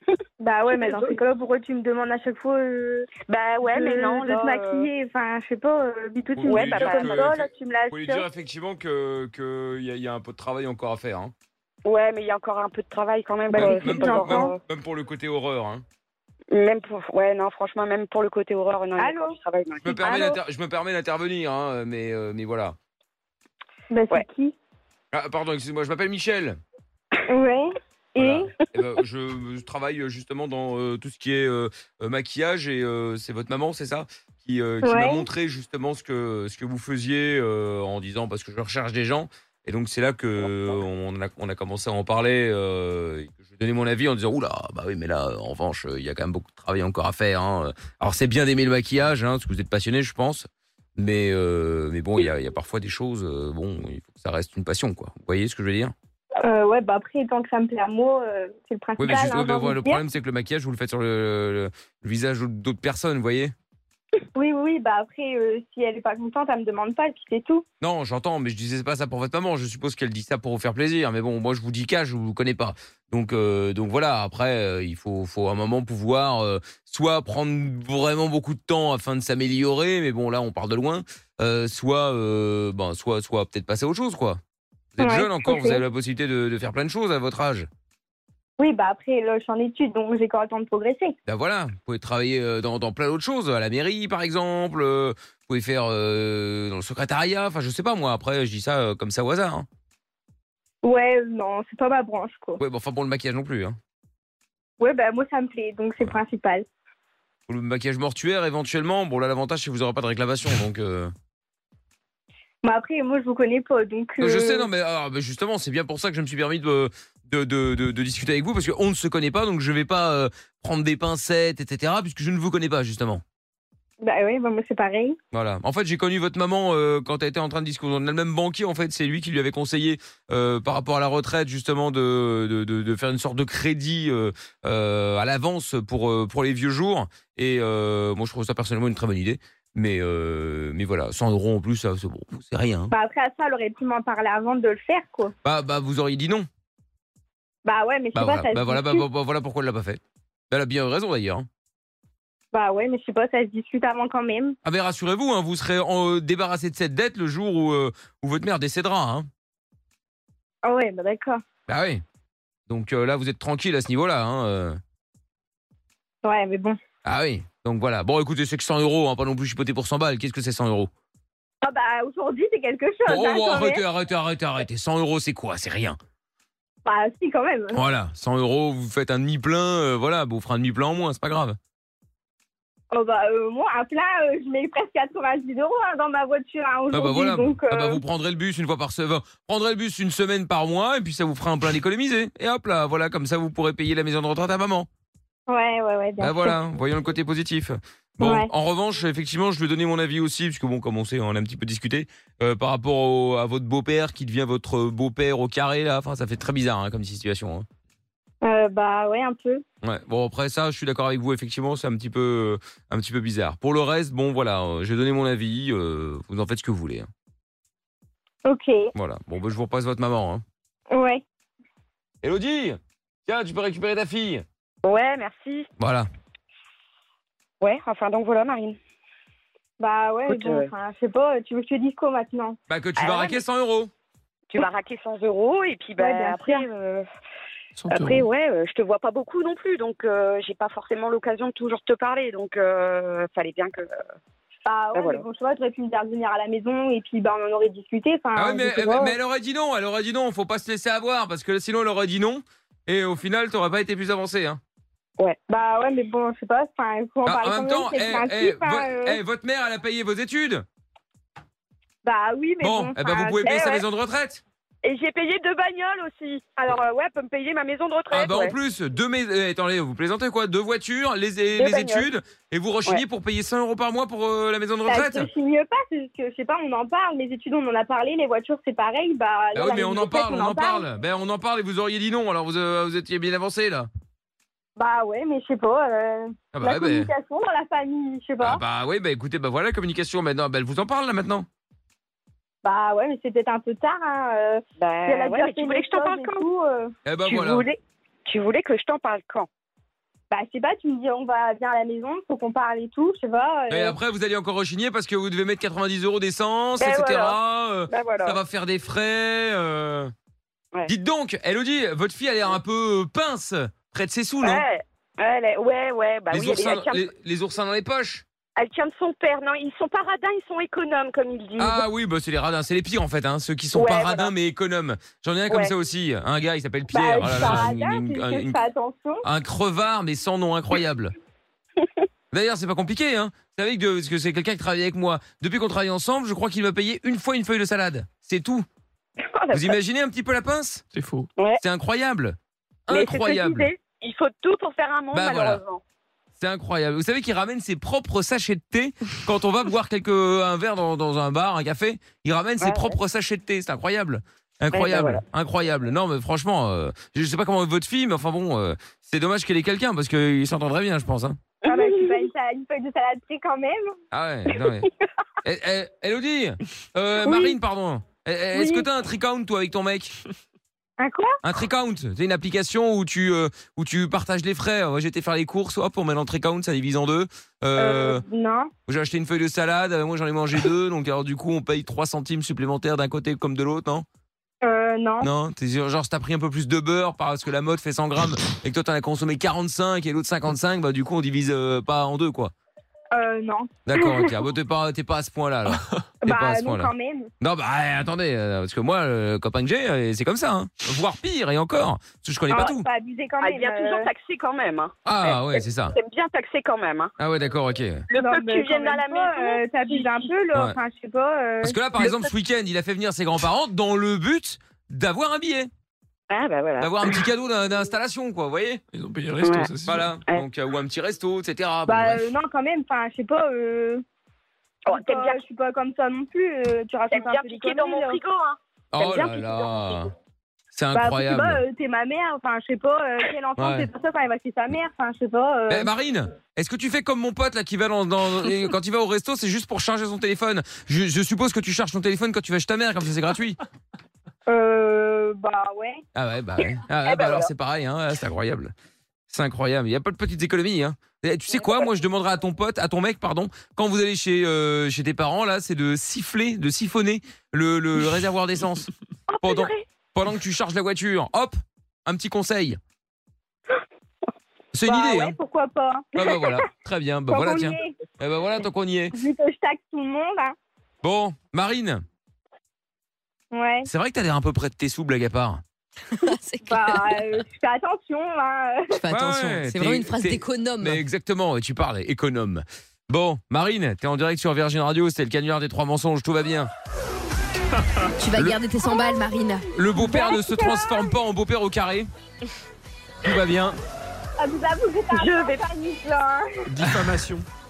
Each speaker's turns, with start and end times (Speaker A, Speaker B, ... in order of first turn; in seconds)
Speaker A: 0.4-3.1, 3.6-8.2, 13.5-14.5, 19.0-19.4, 20.0-20.4, 23.9-24.5, 27.3-28.5, 34.8-35.3, 56.4-60.0, 64.3-67.6, 85.0-85.8, 88.6-91.1, 100.8-102.6, 104.8-106.7, 112.6-114.7, 124.0-125.2, 142.9-145.3, 147.6-149.1, 152.5-154.6, 160.6-161.4, 166.2-166.8, 171.6-173.8, 176.8-177.9, 182.9-188.0, 195.5-196.6, 198.2-198.5, 208.4-209.6, 218.4-218.9, 220.9-221.2, 229.8-232.6, 236.0-236.7, 244.7-249.2, 255.5-259.2, 262.0-263.8, 274.8-280.9, 284.8-288.6, 292.6-296.9, 300.3-303.9, 326.9-329.2, 361.6-363.9, 367.3-367.6, 368.5-368.9, 371.0-371.4, 377.8-378.7, 384.6-385.3, 393.1-394.4, 396.2-397.3, 402.5-404.1, 408.2-412.1, 421.9-424.0, 424.9-428.2, 430.9-435.9, 444.5-446.0, 464.8-466.6, 467.3-468.0, 469.1-470.5, 473.5-473.9, 476.6-479.0, 489.8-491.1, 494.4-496.7
Speaker B: 0.7-1.2, 3.2-4.9, 6.4-7.3, 11.8-14.5, 16.5-20.3, 224.8-225.7, 227.6-228.8, 230.3-230.7, 233.0-233.4, 234.5-237.1, 237.9-243.9, 244.9-245.2, 263.4-263.8, 264.8-268.6, 271.6-272.1, 294.8-296.5, 297.3-299.5, 306.8-307.4, 307.9-308.4, 314.4-317.1, 318.6-321.9, 323.7-324.3, 339.3-339.7, 342.9-345.8, 352.6-352.9, 354.7-355.2, 361.6-362.2, 403.4-407.1, 408.1-410.3, 416.3-417.1, 419.4-419.7, 424.9-425.4, 427.1-429.6, 447.1-447.5, 459.3-459.8, 495.1-495.6
Speaker C: 6.3-11.3, 13.6-15.8, 19.8-22.8, 25.1-26.6, 28.2-55.9, 59.0-63.5, 67.8-84.4, 85.0-87.7, 91.2-99.7, 102.6-103.8, 107.5-111.1, 114.2-123.2, 125.3-142.9, 145.4-146.5, 148.1-151.5, 154.6-159.3, 161.7-162.0, 162.7-164.8, 167.0-170.9, 173.1-176.0, 177.7-181.6, 186.9-194.9, 196.2-207.7, 209.8-217.1, 218.9-220.4, 222.2-224.4, 225.8-226.1, 232.7-233.9, 248.3-254.6, 257.2-260.6, 262.6-264.4, 268.1-275.3, 279.5-283.9, 286.5-287.1, 288.4-291.4, 297.1-297.7, 303.7-310.1, 310.9-314.6, 316.3-318.2, 321.6-328.6, 329.2-331.1, 332.3-338.6, 339.5-340.8, 341.6-342.4, 342.9-343.7, 345.1-345.6, 346.4-361.4, 364.1-364.9, 365.4-370.1, 371.4-378.2, 378.9-384.1, 385.2-392.5, 393.9-402.9, 405.0-405.9, 407.2-408.0, 411.6-415.7, 416.8-418.8, 419.9-422.2, 428.9-430.1, 430.7-431.6, 433.6-433.9, 435.7-443.6, 446.1-448.7, 449.3-458.9, 459.4-462.8, 464.7-465.4, 466.1-469.1, 471.0-472.0, 473.8-475.6, 479.1-486.7, 489.7-492.1, 493.2-493.8
Speaker D: 237.8-238.3, 340.9-341.3, 418.9-420.1, 496.6-497.4
Speaker E: 476.1-477.3, 478.9-481.0, 488.2-489.7